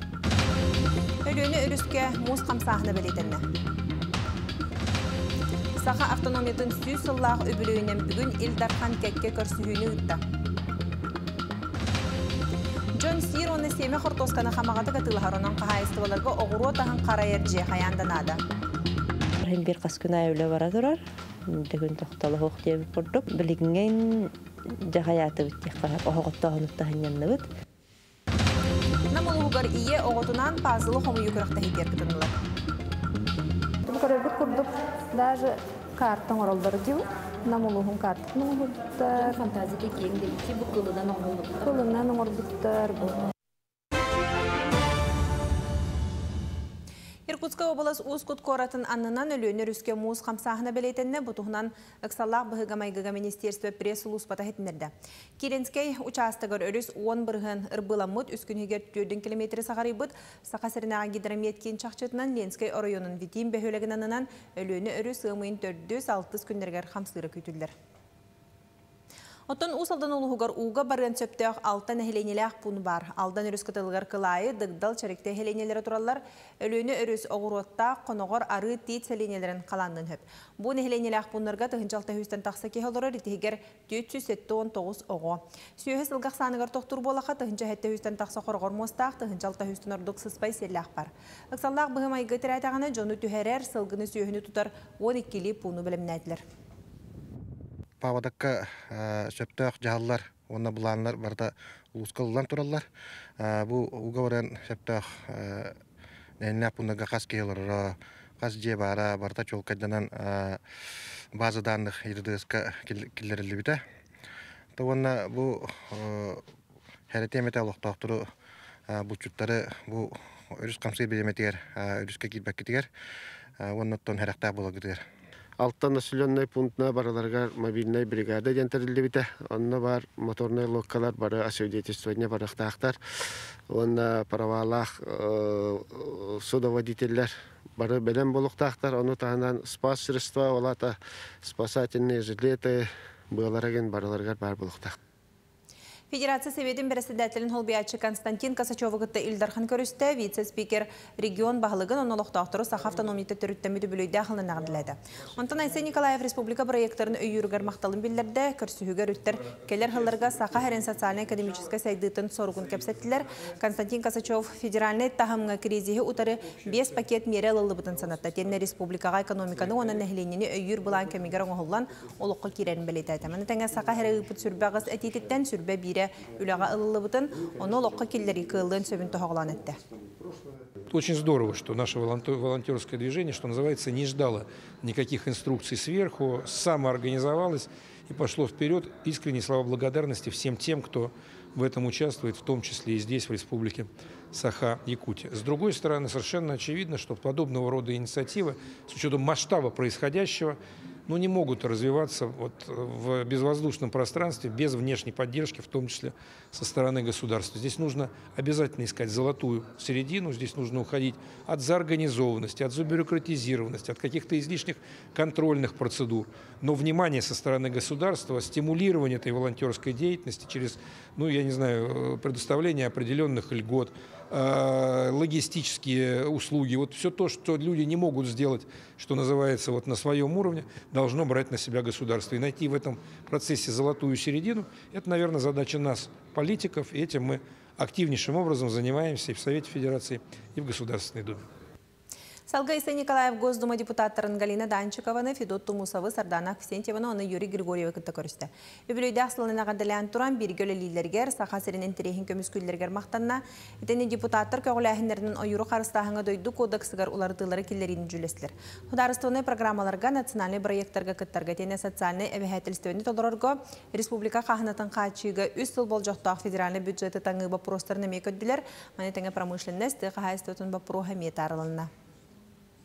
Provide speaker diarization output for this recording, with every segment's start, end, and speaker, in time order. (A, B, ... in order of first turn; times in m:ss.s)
0:01.2-0:03.4 A
0:05.8-0:10.2 A
0:12.9-0:18.4 A
0:19.4-0:24.3 B
0:24.9-0:27.4 B
0:29.1-0:32.3 A
0:33.8-0:39.4 C
0:39.1-0:41.8 D
0:41.6-0:43.2 C
0:47.3-1:07.7 A
1:09.5-1:36.4 A
1:38.0-1:42.8 E
1:43.4-1:45.7 E
1:46.4-1:50.6 E
1:51.3-1:53.8 E
1:54.8-1:56.4 E
1:57.1-1:58.2 E
1:58.9-2:02.9 E
2:03.6-2:05.0 E
2:05.6-2:13.0 F
2:13.7-2:24.9 F
2:26.1-2:59.8 A
3:00.9-4:01.4 G
4:02.5-4:31.9 A